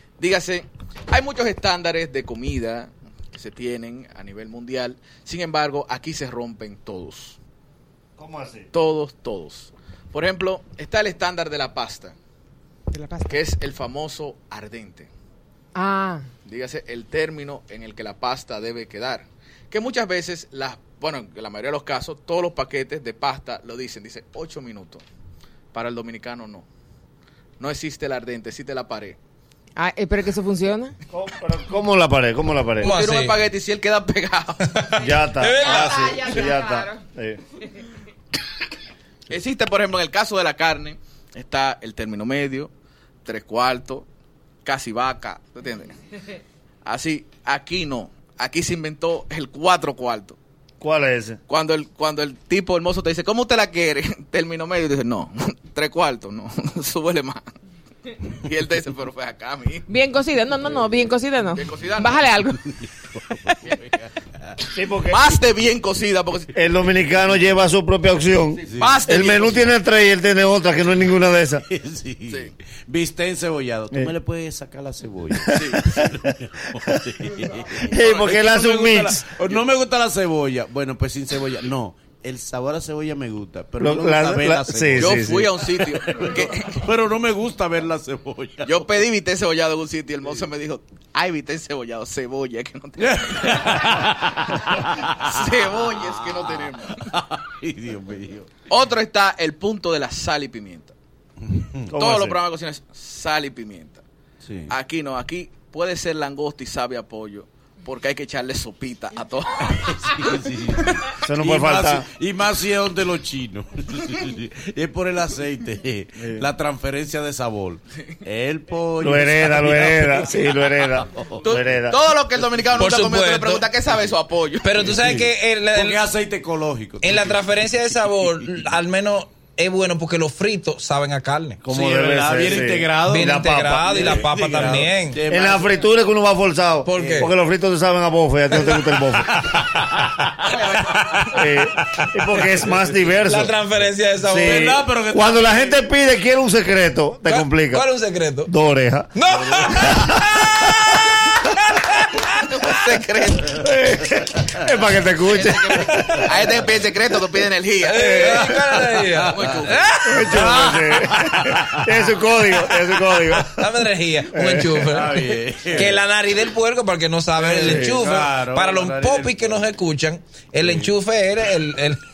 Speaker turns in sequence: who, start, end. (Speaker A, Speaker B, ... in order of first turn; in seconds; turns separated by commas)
Speaker A: 0.2-7.4, Speaker B: 8.2-8.7, Speaker A: 8.7-12.2, Speaker C: 12.9-13.4, Speaker A: 13.3-15.1, Speaker C: 15.8-16.3, Speaker A: 16.4-25.0, Speaker A: 25.7-26.6, Speaker A: 27.6-29.2, Speaker C: 29.8-30.9, Speaker B: 31.1-32.9, Speaker D: 32.8-33.3, Speaker A: 32.8-34.8, Speaker D: 34.9-36.0, Speaker B: 35.0-37.4, Speaker C: 35.6-37.0, Speaker A: 39.3-42.7, Speaker A: 43.2-44.1, Speaker A: 44.6-46.0, Speaker A: 46.8-50.4, Speaker B: 50.8-51.4, Speaker A: 51.5-57.5, Speaker A: 58.2-59.9, Speaker C: 59.9-62.7, Speaker A: 61.5-62.3, Speaker E: 63.1-64.6, Speaker C: 63.5-63.8, Speaker B: 64.7-65.2, Speaker A: 65.1-66.5, Speaker B: 66.5-71.6, Speaker A: 68.6-69.7, Speaker E: 68.7-69.6, Speaker E: 71.6-89.0, Speaker A: 72.3-72.5, Speaker B: 75.5-76.1, Speaker A: 75.5-75.9, Speaker B: 77.8-79.3, Speaker A: 78.0-78.2, Speaker B: 83.8-85.5, Speaker A: 85.0-86.9, Speaker A: 88.6-93.9, Speaker E: 93.0-98.6, Speaker A: 94.7-97.0, Speaker A: 98.7-101.0, Speaker E: 101.4-102.3, Speaker A: 101.9-104.0, Speaker E: 104.4-104.7, Speaker A: 104.7-110.2, Speaker E: 109.8-121.6, Speaker B: 111.2-112.1, Speaker B: 119.0-122.0, Speaker A: 121.4-124.9, Speaker D: 122.8-123.7, Speaker D: 124.6-126.1, Speaker E: 124.8-128.7, Speaker D: 127.0-131.6, Speaker B: 131.6-134.2, Speaker E: 131.7-135.7, Speaker D: 133.1-135.2, Speaker B: 135.3-139.4, Speaker D: 136.8-137.3, Speaker E: 137.0-137.3, Speaker E: 138.6-141.0, Speaker D: 140.5-142.1, Speaker B: 141.3-143.6, Speaker E: 142.5-142.8, Speaker D: 143.2-144.7, Speaker B: 144.2-147.9, Speaker E: 144.3-145.9, Speaker D: 147.3-148.5, Speaker B: 148.5-149.1, Speaker D: 149.2-152.3, Speaker E: 149.5-149.9, Speaker B: 149.8-150.1, Speaker A: 152.4-153.6, Speaker B: 153.5-155.8, Speaker A: 155.3-158.0, Speaker D: 155.8-156.6, Speaker D: 157.8-160.4, Speaker B: 158.0-158.8, Speaker E: 159.0-159.3, Speaker A: 159.3-159.9, Speaker B: 160.1-163.7, Speaker E: 160.2-162.2, Speaker D: 163.4-172.0, Speaker B: 164.3-164.9, Speaker E: 164.8-166.0, Speaker E: 167.3-169.7, Speaker B: 167.6-168.0, Speaker E: 170.6-170.9